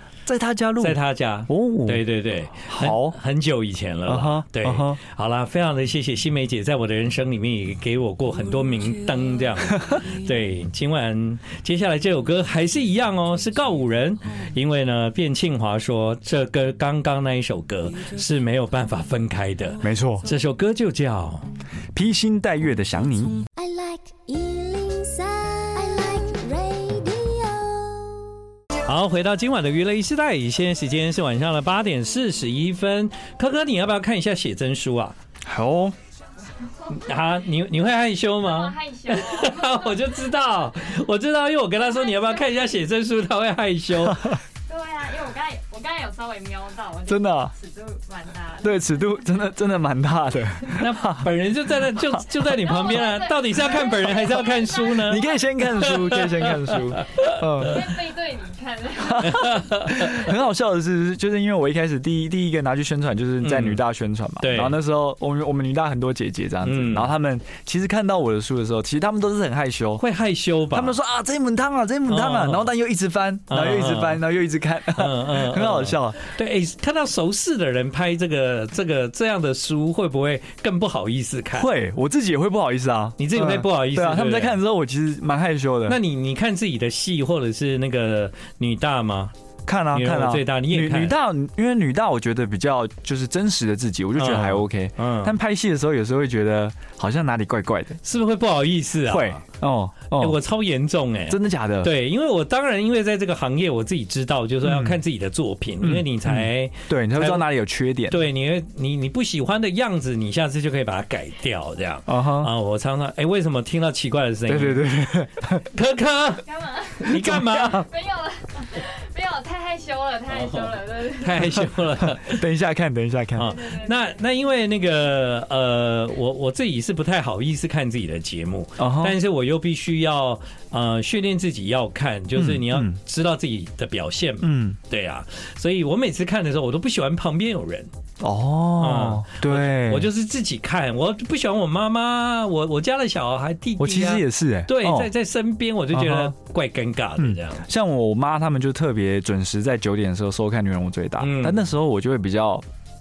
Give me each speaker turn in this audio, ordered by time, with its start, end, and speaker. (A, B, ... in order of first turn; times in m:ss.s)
0:00.2-0:02.0 A
0:00.8-0:21.5 B
0:02.7-0:03.2 A
0:04.0-0:05.0 A
0:19.8-0:20.3 A
0:21.9-0:23.4 A
0:23.6-0:28.3 C
0:28.8-0:35.2 B
0:35.4-0:35.9 A
0:36.9-0:44.4 B
0:38.7-0:39.8 D
0:44.7-0:48.8 D
0:47.1-0:47.5 A
0:48.6-0:51.3 A
0:50.8-0:57.4 B
0:52.7-0:55.5 D
0:54.9-0:57.9 A
0:57.6-0:59.6 D
0:59.0-1:10.0 A
0:59.2-1:00.1 B
1:03.4-1:03.8 B
1:04.4-1:04.8 B
1:06.6-1:07.1 B
1:10.0-1:11.0 B
1:10.7-1:16.2 A
1:12.1-1:12.7 B
1:13.5-1:14.2 B
1:15.0-1:21.7 B
1:21.5-1:26.0 A
1:23.2-1:24.6 B
1:25.9-1:29.3 B
1:29.6-1:38.0 A
1:29.9-1:31.1 B
1:34.2-1:35.3 B
1:38.0-1:39.4 B
1:39.1-1:40.4 A
1:40.2-1:47.4 B
1:41.3-1:41.9 A
1:44.6-1:45.0 A
1:45.8-1:48.2 A
1:48.1-1:54.9 B
1:52.1-1:52.5 A
1:54.5-1:55.7 A
1:55.6-1:57.9 B
1:56.5-1:57.1 D
1:57.1-1:57.9 A
1:57.8-2:01.4 D
2:00.3-2:02.4 B
2:01.5-2:03.5 A
2:03.3-2:17.9 B
2:08.8-2:09.2 A
2:12.3-2:13.0 A
2:14.4-2:14.8 A
2:18.2-2:20.1 A
2:18.8-2:27.6 B
2:23.8-2:25.1 A
2:25.9-2:26.3 A
2:27.2-2:32.6 A
2:31.2-2:31.7 B